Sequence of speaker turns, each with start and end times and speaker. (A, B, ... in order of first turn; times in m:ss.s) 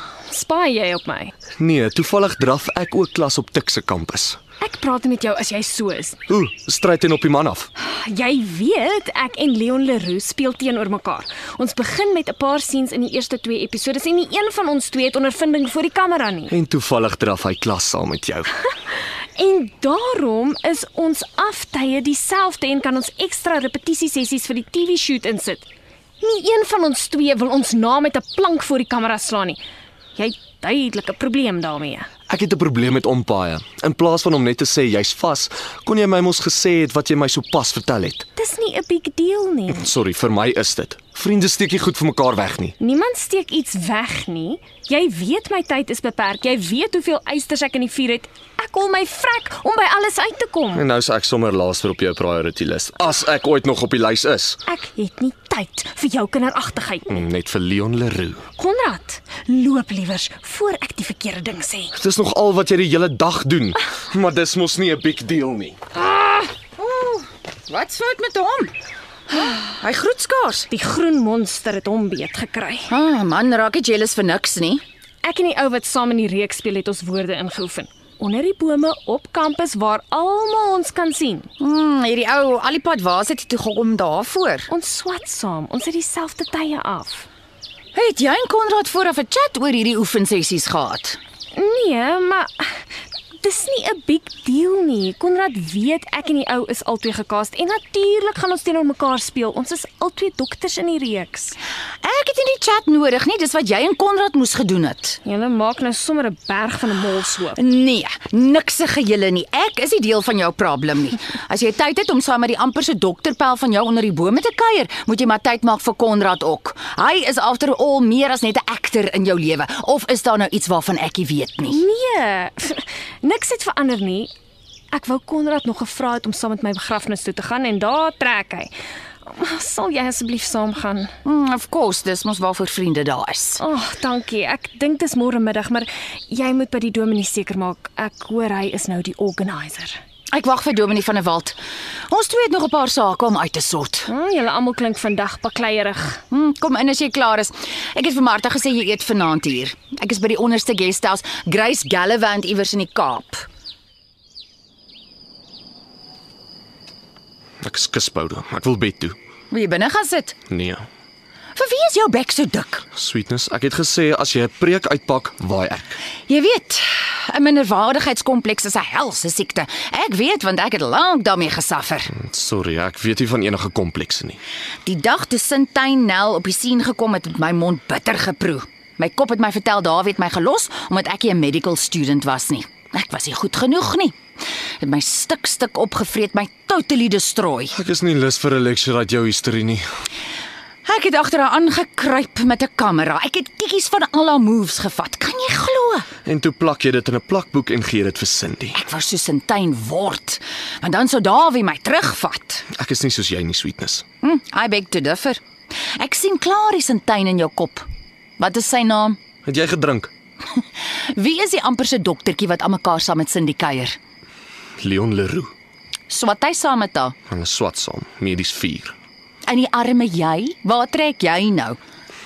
0:00.3-0:01.3 A
0:01.6-0:04.4 B
0:04.6-0:06.2 A
0:06.3-0:07.7 B
0:07.8-0:16.5 A
0:16.5-0:18.5 B
0:19.4-0:25.7 A
0:26.2-0:29.6 A
0:30.2-0:32.1 A
0:32.3-0:38.3 B
0:38.4-0:39.9 A
0:39.7-0:42.8 B
0:42.8-0:50.9 A
0:50.8-0:54.6 B
0:54.7-0:57.3 A
0:57.1-0:58.4 B
0:58.6-1:02.0 A
1:01.9-1:05.8 B
1:06.0-1:08.8 C
1:09.3-1:10.7 C
1:10.7-1:12.9 A
1:12.9-1:14.8 C
1:15.2-1:21.5 A
1:21.6-1:24.7 C
1:24.7-1:27.3 A
1:27.9-1:31.2 C
1:31.6-1:32.7 A
1:33.4-1:41.6 A
1:42.0-1:45.2 C
1:45.2-1:47.6 A
1:47.6-2:01.8 C
2:01.7-2:04.3 A
2:04.9-2:08.7 A
2:09.3-2:11.1 A
2:11.2-2:13.6 C
2:13.6-2:20.0 A
2:20.3-2:21.6 C
2:22.1-2:24.1 C
2:24.1-2:26.2 A
2:26.3-2:33.5 C
2:37.6-2:39.2 B
2:39.5-2:40.4 C
2:40.5-2:40.8 B
2:41.6-2:42.8 C
2:43.0-2:45.8 B
2:46.3-2:52.1 C
2:52.2-2:54.4 B
2:54.8-3:04.2 C
3:04.8-3:07.8 C
3:07.7-3:09.8 B
3:10.8-3:16.1 C
3:16.3-3:18.7 B
3:18.8-3:22.7 C
3:22.8-3:24.0 B
3:24.2-3:25.4 C
3:26.0-3:27.8 C
3:28.4-3:29.2 C
3:29.5-3:30.1 B
3:30.6-3:34.0 C
3:34.8-3:35.5 B
3:36.1-3:37.2 C
3:37.3-3:39.0 B
3:39.5-3:41.8 C